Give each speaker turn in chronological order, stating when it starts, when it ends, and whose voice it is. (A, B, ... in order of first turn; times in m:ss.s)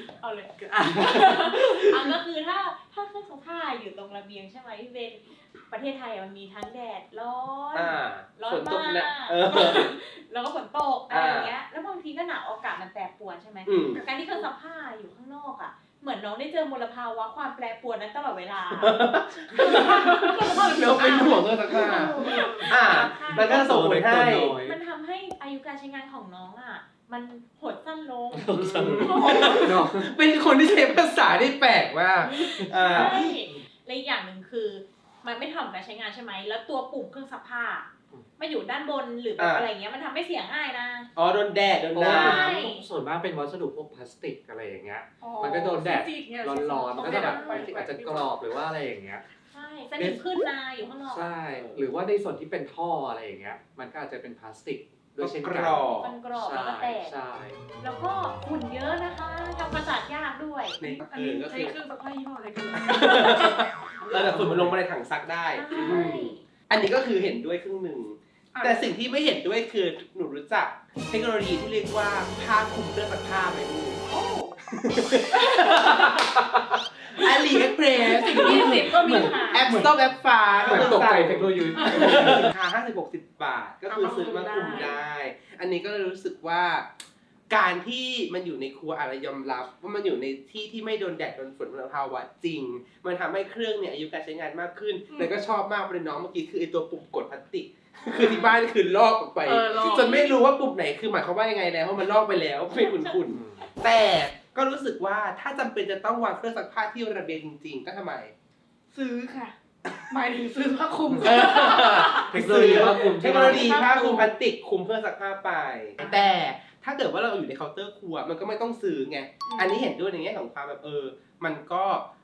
0:00.2-0:23.8 A
0:00.6-0:02.1 B
0:07.7-0:09.8 C
0:11.1-0:11.5 C
0:13.6-0:14.0 C
0:13.8-0:14.5 D
0:18.8-0:24.5 C
0:19.8-0:22.7 D
0:23.0-0:24.8 B
0:24.6-0:28.6 A
0:28.3-0:30.0 B
0:28.5-0:33.3 C
0:29.2-0:29.6 D
0:32.3-0:41.1 A
0:32.6-0:33.6 B
0:39.4-0:39.7 C
0:41.2-0:42.6 C
0:41.9-0:49.2 B
0:42.0-0:42.8 A
0:45.2-0:48.4 D
0:47.0-0:47.7 A
0:49.5-0:51.3 A
0:49.9-0:50.2 B
0:51.1-0:57.6 B
0:51.5-0:51.8 C
0:55.2-0:56.1 C
0:56.0-0:57.1 A
0:57.8-1:00.8 A
1:00.8-1:01.8 C
1:00.8-1:03.7 D
1:02.8-1:14.0 C
1:04.2-1:04.8 B
1:05.5-1:06.4 A
1:08.5-1:08.9 D
1:14.1-1:14.5 D
1:14.6-1:16.4 C
1:15.5-1:15.9 D
1:17.1-1:26.9 C
1:18.0-1:19.7 D
1:18.3-1:20.0 B
1:18.4-1:19.6 A
1:20.5-1:21.0 D
1:20.6-1:22.5 B
1:23.9-1:25.0 D
1:27.5-1:48.3 C
1:35.1-1:35.4 D
1:38.2-1:38.5 A
1:39.4-1:40.4 D
1:42.7-1:43.3 A
1:43.3-1:43.6 B
1:48.9-1:49.5 D
1:50.1-1:54.3 D
1:51.1-1:51.5 B
1:51.2-2:02.1 C
1:52.1-1:53.9 B
1:59.4-1:59.8 D